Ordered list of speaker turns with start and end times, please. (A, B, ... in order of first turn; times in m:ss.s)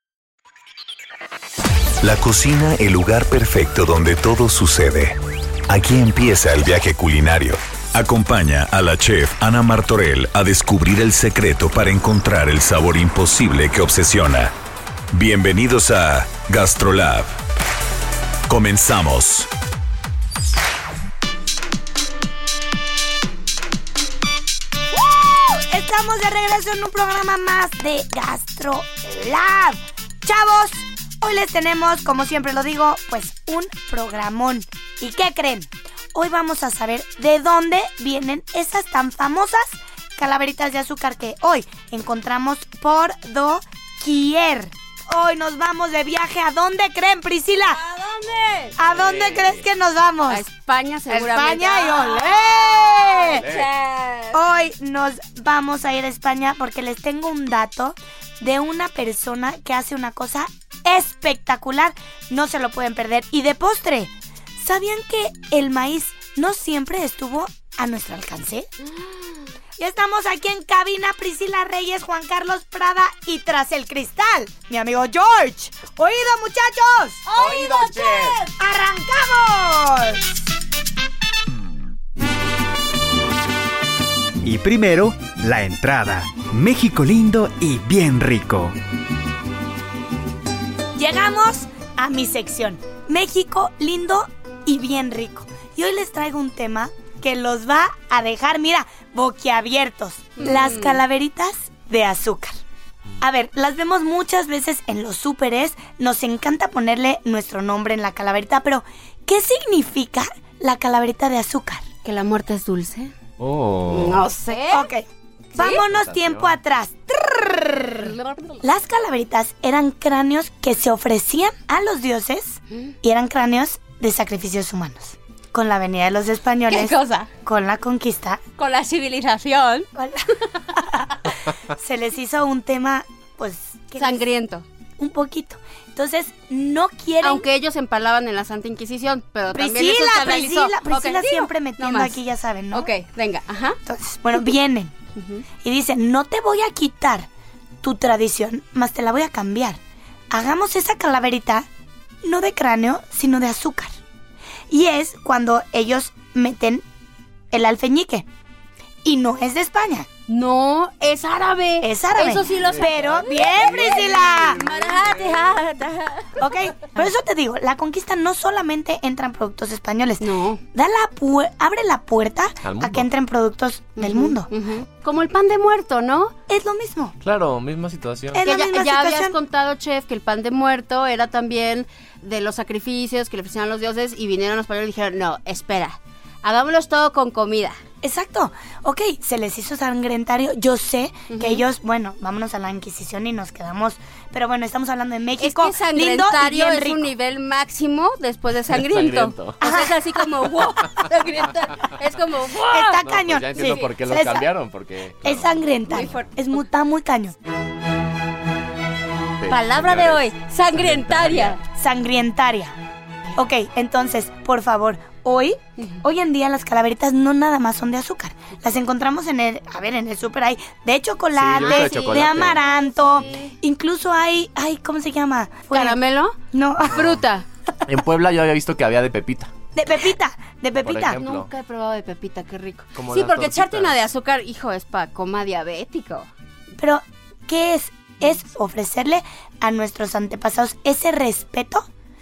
0:02.0-0:14.5 A
0:15.1-0:17.4 A
0:18.5-0:19.5 A
0:24.9-0:47.8 B
0:47.7-0:48.8 C
0:48.8-0:50.4 B
0:48.9-0:49.5 D
0:50.3-0:52.4 C
0:51.1-0:53.5 B
0:53.0-0:54.4 C
0:54.3-1:08.7 B
1:09.0-1:09.4 C
1:09.8-1:17.3 B
1:17.3-1:18.5 C
1:17.4-1:18.4 D
1:18.6-1:20.3 B
1:24.4-1:28.8 E
1:30.9-1:42.6 B
1:40.4-1:41.0 C
1:43.2-1:51.8 B
1:52.0-1:53.1 C
1:53.4-1:54.3 D
1:53.9-1:54.9 C
1:54.7-1:58.1 B
1:55.6-1:55.8 C
1:55.6-1:56.5 D
1:58.0-1:58.6 C
1:58.6-2:08.4 B
2:06.7-2:07.3 C
2:08.6-2:09.9 C
2:09.9-2:11.2 B
2:11.7-2:14.2 B
2:14.0-2:14.6 C
2:15.0-2:17.5 B
2:17.2-2:22.2 C
2:19.5-2:22.9 B
2:22.7-2:23.8 C
2:23.8-2:24.9 B
2:25.2-2:25.4 C
2:25.6-2:27.3 B
2:27.8-2:29.8 B
2:30.3-2:31.7 B
2:32.2-2:34.0 B
2:34.7-2:36.8 B
2:37.5-2:38.2 B
2:39.0-2:40.1 B
2:40.3-2:46.4 C
2:41.8-2:44.6 B
2:46.4-2:54.5 B
2:50.2-2:50.6 C
2:52.6-2:53.1 D
2:54.0-2:56.3 C
2:56.5-2:57.1 B
2:57.2-2:58.5 D
2:58.3-2:59.3 B
2:58.4-3:07.8 C
3:08.0-3:17.0 B
3:11.3-3:11.6 C
3:15.4-3:23.0 C
3:18.7-3:19.6 D
3:19.6-3:20.0 B
3:22.7-3:24.5 B
3:23.0-3:25.5 D
3:23.5-3:23.8 C
3:25.2-3:27.4 B
3:25.9-3:26.3 C
3:29.4-3:31.6 D
3:29.5-3:31.6 C
3:31.7-3:32.7 B
3:33.3-3:46.0 B
3:41.3-3:42.6 D
3:41.6-3:43.4 C
3:45.7-3:46.4 C
3:46.5-3:47.0 B
3:46.9-3:47.4 C
3:47.9-3:49.5 D
3:49.7-3:51.2 B
3:50.8-3:51.5 D
3:51.1-3:56.3 C
3:52.9-3:54.1 D
3:56.8-4:01.9 B